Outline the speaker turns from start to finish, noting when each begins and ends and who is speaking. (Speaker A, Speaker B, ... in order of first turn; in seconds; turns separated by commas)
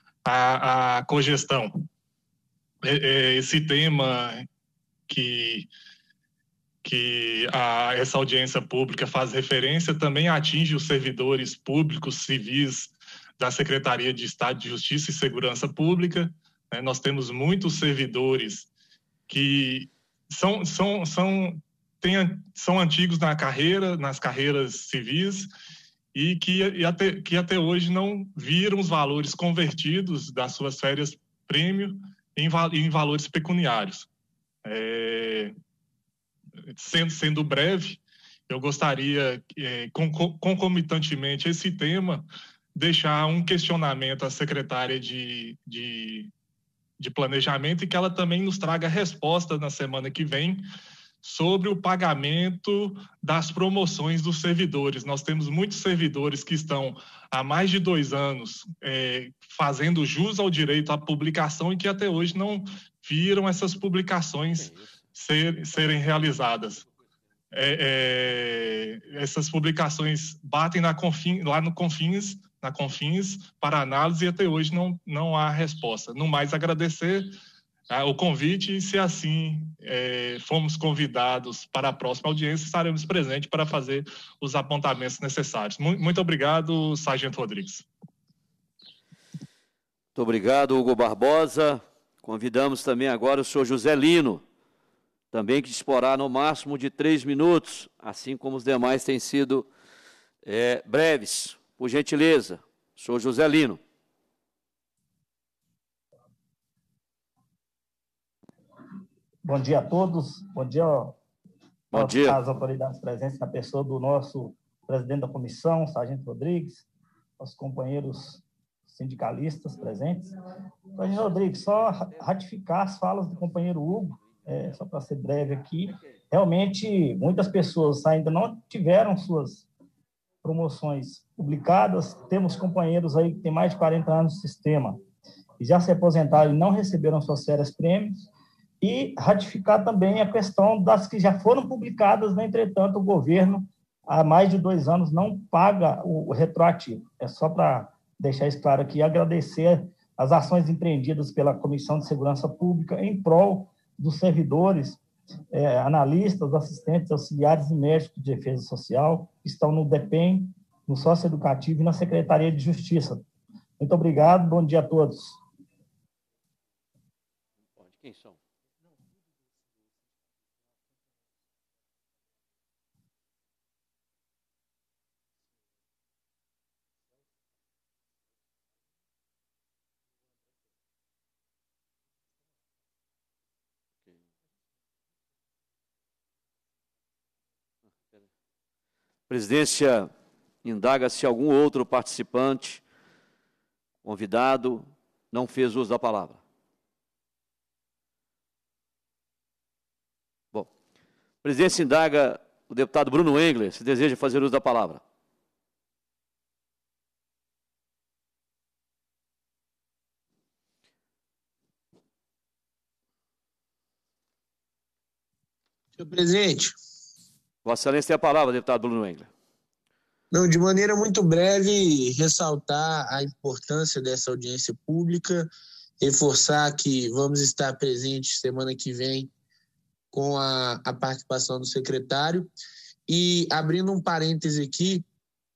Speaker A: 0.3-1.8, Speaker A: 2.8-4.5, Speaker A: 5.1-5.7, Speaker A: 6.8-18.7, Speaker A: 19.3-25.5, Speaker A: 26.1-34.1, Speaker A: 34.6-35.5, Speaker A: 36.7-46.3, Speaker A: 47.0-50.6, Speaker A: 51.2-66.8, Speaker B: 64.6-64.9, Speaker A: 67.5-77.3, Speaker A: 77.9-87.8, Speaker B: 90.2-94.4, Speaker B: 95.3-99.7, Speaker B: 100.5-103.8, Speaker C: 109.5-111.2, Speaker B: 111.9-112.4, Speaker C: 111.9-116.8, Speaker C: 117.4-120.4, Speaker C: 121.0-129.7, Speaker C: 130.4-135.0, Speaker C: 135.6-138.3, Speaker C: 138.8-155.0, Speaker C: 155.5-163.3, Speaker C: 163.8-165.4, Speaker B: 167.9-168.3, Speaker B: 189.3-190.1, Speaker B: 190.7-192.8, Speaker B: 194.1-196.4, Speaker B: 201.4-205.0, Speaker D: 216.0-216.8, Speaker B: 217.7-219.3, Speaker D: 220.3-225.5, Speaker D: 226.0-229.3, Speaker D: 230.1-232.5, Speaker D: 233.1-235.0